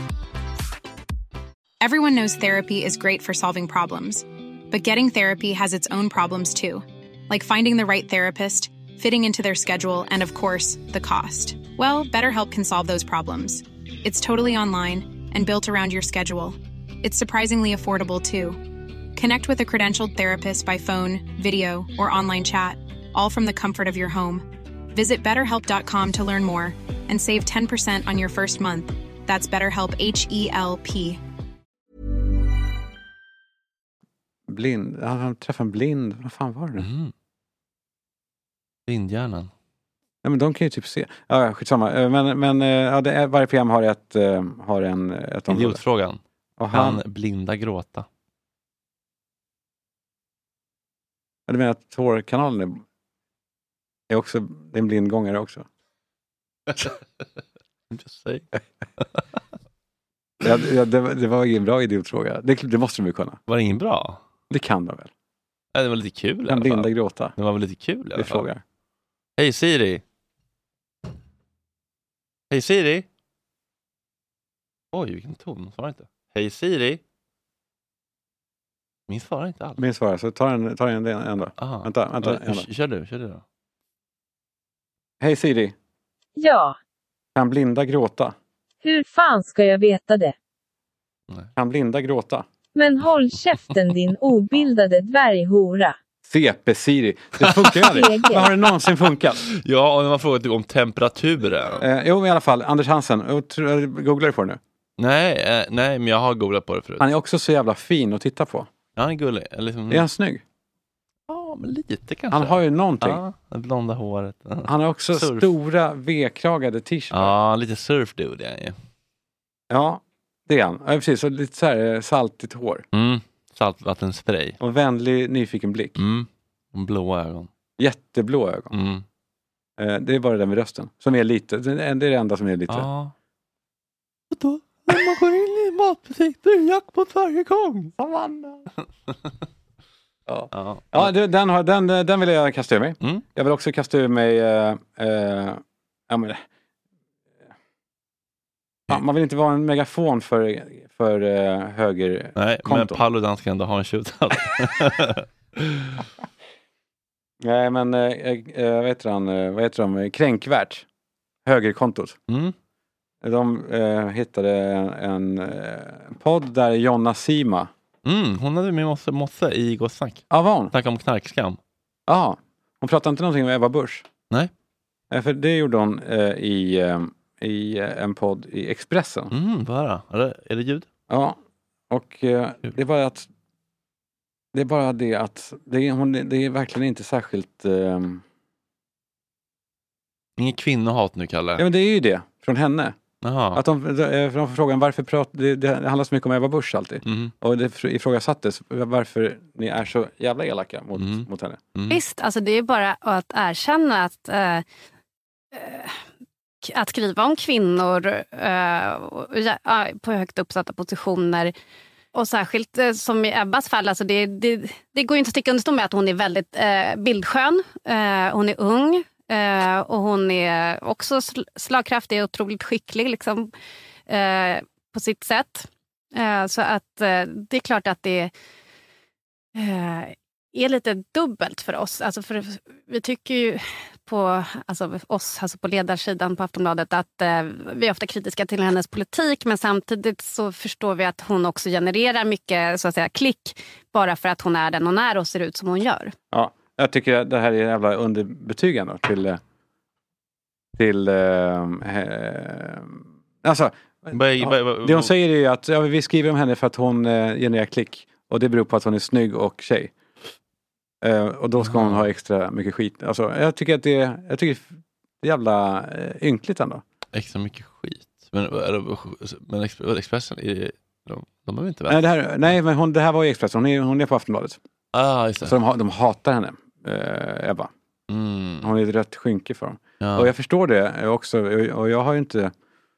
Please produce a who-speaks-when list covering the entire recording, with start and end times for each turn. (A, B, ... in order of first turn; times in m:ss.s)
0:01.8-0:18.6 A
0:19.2-0:31.2 A
0:34.5-0:36.9 B
0:36.8-0:37.1 C
0:38.9-0:39.5 C
0:40.2-0:45.8 B
0:45.5-0:46.2 C
0:46.6-0:47.0 B
0:46.7-0:48.1 C
0:51.5-0:52.8 B
0:54.1-0:55.7 B
0:56.7-0:57.0 C
0:57.9-0:58.5 C
1:00.4-1:03.4 B
1:03.5-1:04.2 C
1:04.5-1:05.1 B
1:05.8-1:08.4 C
1:06.5-1:07.4 B
1:08.2-1:08.6 B
1:09.4-1:10.0 C
1:12.5-1:13.1 C
1:14.9-1:17.0 C
1:19.1-1:19.8 C
1:19.8-1:22.7 B
1:21.6-1:23.4 C
1:25.2-1:25.8 B
1:26.4-1:26.8 D
1:27.4-1:28.4 B
1:28.8-1:30.3 D
1:31.6-1:32.5 B
1:32.8-1:36.0 D
1:36.2-1:39.4 B
1:37.9-1:38.5 D
1:39.5-1:41.8 C
1:41.8-1:44.6 B
1:45.0-1:47.1 C
1:47.0-1:48.7 B
1:49.0-1:50.1 C
1:49.9-1:50.4 B
1:51.3-1:55.5 C
1:52.3-1:53.2 B
1:54.7-1:57.3 B
1:57.1-1:58.8 C
1:59.7-2:02.8 B
2:02.9-2:04.6 C
2:04.6-2:06.0 B
2:06.0-2:07.5 C
2:07.8-2:08.7 B
2:08.7-2:09.0 C
2:09.8-2:12.9 B
2:12.7-2:13.1 C
2:14.3-2:17.9 C
2:18.0-2:18.7 B
2:20.3-2:26.4 B
2:20.5-2:21.1 C
2:28.9-2:33.0 B
2:32.4-2:36.0 C
2:37.4-2:40.8 B
2:41.4-2:42.2 B
2:42.3-2:42.6 C
2:43.2-2:47.7 B
2:48.0-2:51.6 C
2:50.3-2:50.7 B
2:52.1-2:54.1 B
2:55.1-2:59.3 B
2:59.3-3:00.9 C
3:01.1-3:01.4 B
3:01.9-3:03.3 B
3:04.5-3:08.2 B
3:10.4-3:11.6 C
3:11.6-3:13.0 B
3:13.2-3:13.6 C
3:13.5-3:21.6 B
3:17.0-3:17.3 C
3:21.0-3:22.0 C
3:21.9-3:24.6 E
3:25.5-3:26.0 E
3:26.6-3:31.5 E
3:32.1-3:43.5 E
3:44.1-3:48.3 E
3:49.6-4:06.1 E
4:06.3-4:09.4 B
4:10.8-4:19.9 B
4:14.1-4:15.1 C
4:21.0-4:24.7 B
4:21.6-4:22.0 C
4:25.2-4:26.8 B
4:27.1-4:32.0 C
4:31.9-4:34.6 B
4:34.9-4:35.6 C
4:35.4-4:37.7 B
4:38.1-4:38.7 C
4:38.6-4:42.5 B
4:40.0-4:40.3 C